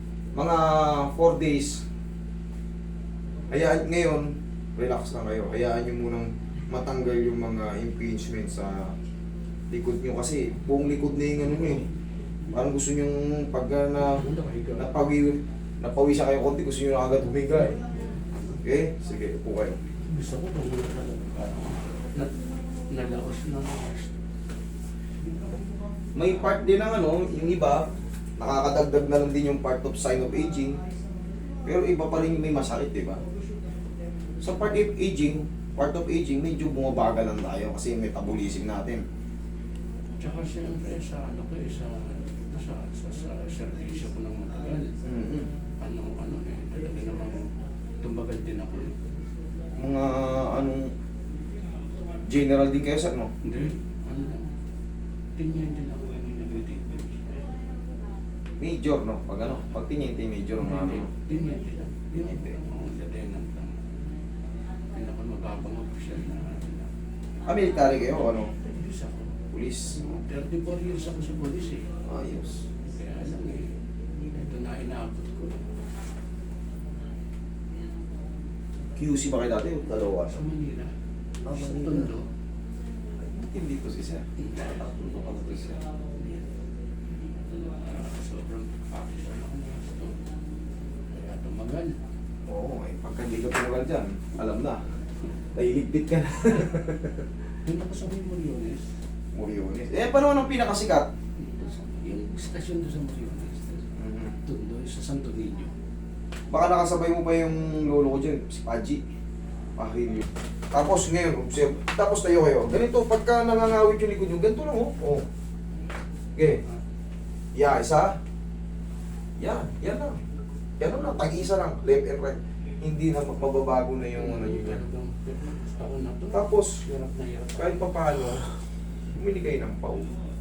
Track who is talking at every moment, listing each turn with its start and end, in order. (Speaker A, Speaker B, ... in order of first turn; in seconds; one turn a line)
Speaker A: 0.3-1.8
Speaker A: 3.5-8.9
Speaker A: 9.7-11.8
Speaker A: 12.5-14.2
Speaker B: 14.0-14.9
Speaker A: 14.8-17.8
Speaker A: 18.6-19.8
Speaker B: 20.0-22.3
Speaker B: 22.9-24.2
Speaker A: 26.1-30.8
Speaker A: 31.6-33.2
Speaker A: 34.4-39.0
Speaker B: 40.2-44.9
Speaker A: 45.0-45.5
Speaker B: 45.8-47.5
Speaker B: 48.0-48.9
Speaker A: 49.7-50.9
Speaker A: 52.3-53.3
Speaker B: 53.4-54.5
Speaker B: 55.4-57.4
Speaker A: 58.6-61.1
Speaker B: 60.6-63.8
Speaker B: 64.9-66.9
Speaker A: 67.5-68.5
Speaker B: 68.5-69.3
Speaker A: 69.5-70.2
Speaker B: 69.9-71.9
Speaker A: 72.0-72.6
Speaker B: 72.8-75.7
Speaker A: 79.0-80.4
Speaker B: 80.3-80.9
Speaker A: 81.4-82.1
Speaker B: 81.5-82.3
Speaker A: 83.2-84.2
Speaker B: 84.4-86.5
Speaker A: 85.0-85.8
Speaker B: 87.2-90.2
Speaker B: 91.1-92.0
Speaker A: 92.5-94.8
Speaker A: 95.5-97.2
Speaker B: 97.6-98.9
Speaker A: 99.3-101.1
Speaker B: 101.4-105.7
Speaker A: 104.0-104.3
Speaker A: 106.5-109.0
Speaker A: 109.8-115.2
Speaker A: 116.3-116.6
Speaker A: 117.5-118.2
Speaker A: 119.4-120.2
Speaker A: 120.8-124.8
Speaker B: 124.1-127.8
Speaker A: 126.3-126.8
Speaker A: 127.5-128.5
Speaker A: 129.1-130.1